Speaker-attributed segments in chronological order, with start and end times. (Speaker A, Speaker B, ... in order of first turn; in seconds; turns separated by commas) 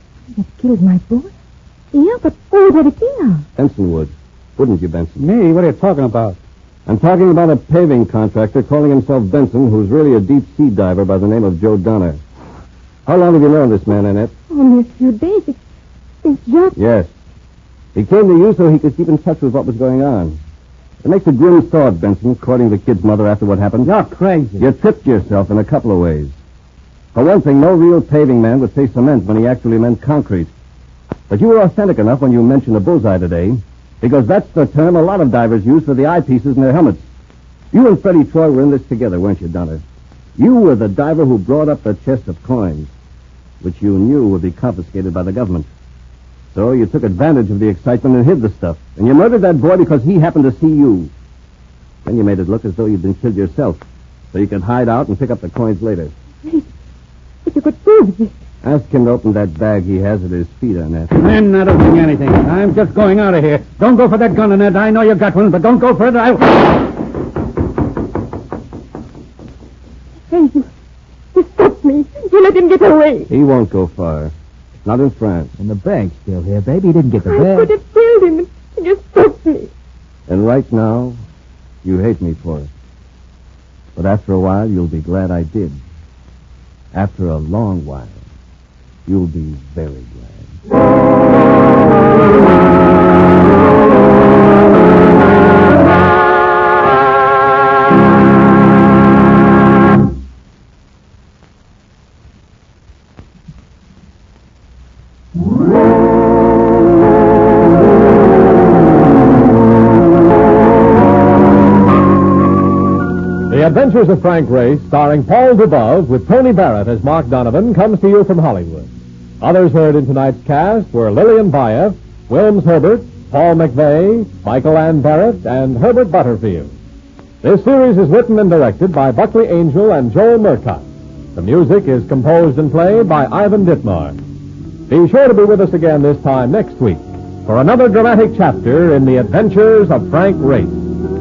Speaker A: 0.3-1.3, Speaker A: 1.9-3.5, Speaker B: 3.5-5.3, Speaker C: 5.2-6.4, Speaker B: 6.9-12.2, Speaker B: 13.1-14.3, Speaker A: 14.5-15.6, Speaker A: 16.2-16.8, Speaker B: 16.7-17.1, Speaker B: 17.9-20.4, Speaker B: 21.0-23.9, Speaker C: 23.8-24.7, Speaker B: 24.6-26.3, Speaker B: 27.1-30.5, Speaker B: 31.3-37.0, Speaker B: 37.7-39.8, Speaker B: 40.4-42.9, Speaker B: 43.6-45.7, Speaker B: 46.5-51.1, Speaker B: 52.0-53.8, Speaker B: 54.3-56.1, Speaker A: 57.4-58.3, Speaker B: 58.6-61.1, Speaker C: 61.1-66.6, Speaker A: 70.3-70.7, Speaker A: 71.3-73.3, Speaker B: 73.3-74.3, Speaker B: 74.8-75.5, Speaker D: 75.6-77.7, Speaker A: 77.2-79.7, Speaker B: 80.3-81.2, Speaker B: 81.8-82.7, Speaker B: 84.0-85.8, Speaker B: 86.9-88.2, Speaker B: 89.0-90.5, Speaker E: 113.5-126.7, Speaker E: 127.4-134.2, Speaker E: 134.9-140.9